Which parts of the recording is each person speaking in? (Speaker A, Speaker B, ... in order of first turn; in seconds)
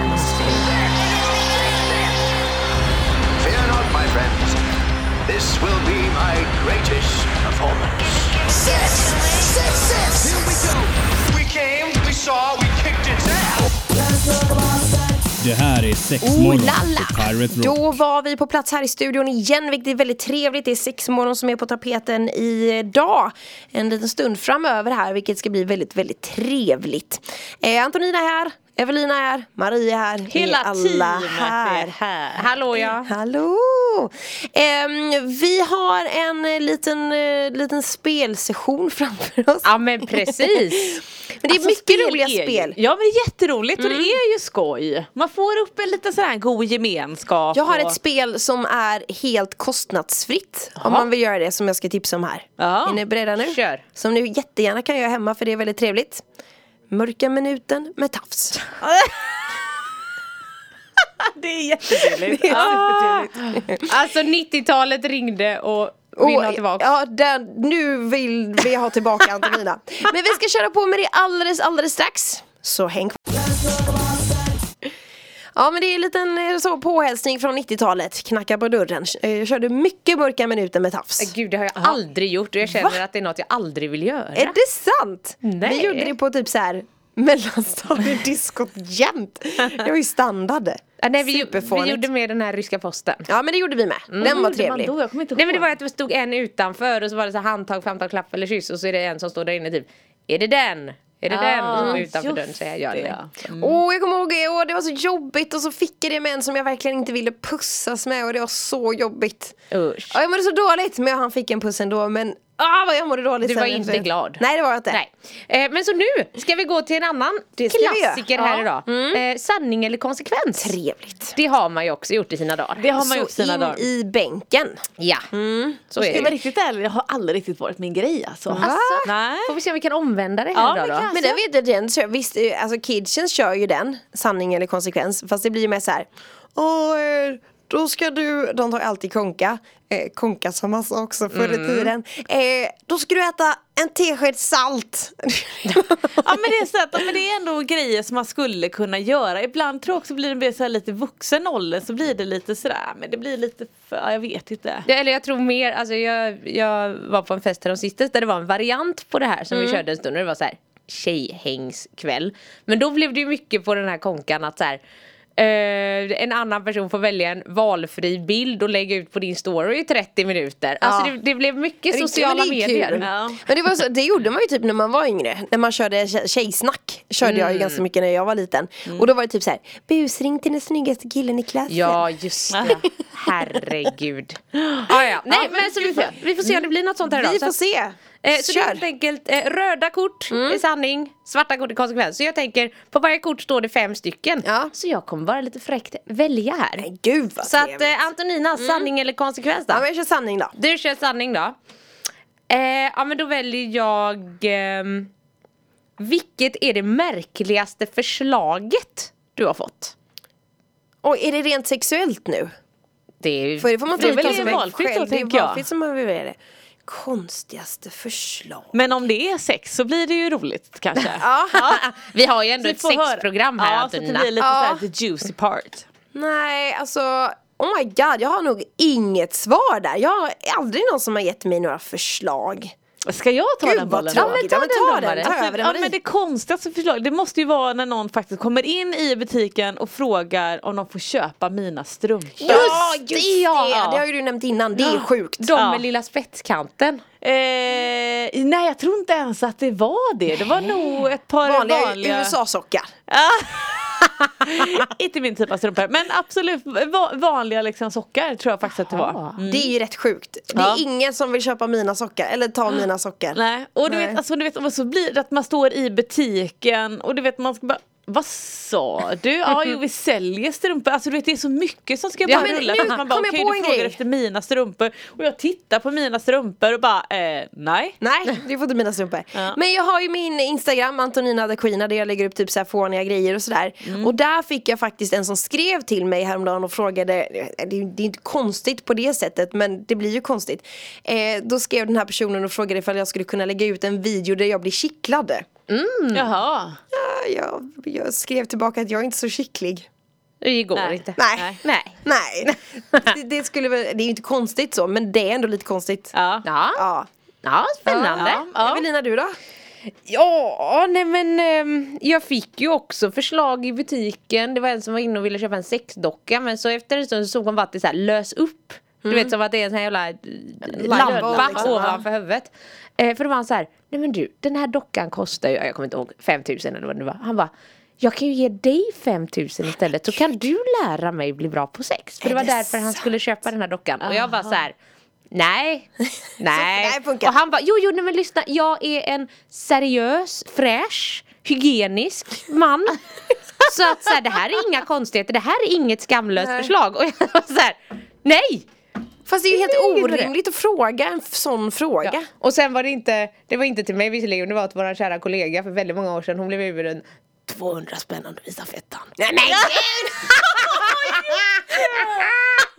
Speaker A: 0.1-0.5, 32.4-33.1, 39.6-41.0, 53.5-53.8, 62.5-66.9, 81.2-84.6, 85.4-86.1, 91.0-93.3, 94.1-94.4, 95.4-103.2, 109.7-110.2, 113.4-120.7, 121.3-122.8, 125.0-125.3, 125.9-126.3, 128.6-131.1, 141.3-141.9, 154.9-164.8, 165.4-173.1, 177.2-177.8, 181.7-187.6, 188.2-196.9, 197.4-199.8, 200.6-201.6, 202.5-205.1, 206.0-209.9, 213.2-214.6, 221.6-224.3, 234.1-235.3, 242.4-243.7, 245.4-247.0, 259.1-259.3, 272.3-272.9, 295.7-296.3, 300.4-303.1, 306.4-306.8, 307.4-308.4, 310.1-334.7, 335.3-343.0, 343.6-348.7, 349.5-350.3, 352.1-361.4
Speaker B: 0.6-2.3, 3.4-4.6, 5.3-13.8
Speaker C: 15.4-17.9
Speaker D: 16.2-32.0, 32.8-42.8, 43.8-44.2, 47.5-56.2, 56.9-58.7, 62.2-63.9, 66.2-73.4, 75.5-81.3, 84.4-92.1, 93.3-94.9, 101.7-102.0, 103.6-109.6, 110.1-115.0, 117.6-119.2, 120.6-121.4, 123.0-126.3, 128.5-129.1, 131.1-146.3, 170.8-171.2, 171.9-182.0, 187.1-188.8, 190.3-190.6, 194.4-194.7, 196.8-197.9, 198.6-198.9, 199.7-200.6, 211.0-212.5, 213.6-218.8, 221.1-221.7, 224.4-224.8, 226.1-232.8, 233.6-235.9, 242.4-245.5, 251.4-252.9, 259.4-264.2, 272.3-274.0, 278.0-295.5, 296.9-299.9, 301.2-306.1, 306.8-307.1, 307.9-309.4, 319.0-319.3, 320.8-322.0, 332.2-333.1, 336.5-337.3, 346.4-346.7, 349.3-352.3, 359.2-362.3
Speaker E: 30.3-32.5, 41.7-48.0, 52.6-53.0, 58.8-59.5, 61.2-63.3, 94.2-95.7, 101.3-103.8, 122.8-123.8, 126.0-129.6, 130.5-131.4, 146.2-154.9, 173.0-173.4, 182.5-182.8, 184.6-186.2, 214.0-215.7, 218.7-221.8, 222.6-225.9, 233.1-234.4, 235.2-242.8, 243.6-244.0, 245.6-245.8, 247.2-252.4, 253.1-259.7, 260.6-260.8, 263.3-278.0, 283.9-284.1, 296.1-296.8, 300.8-301.6, 306.1-306.4, 308.2-308.9, 320.9-321.8, 334.0-334.6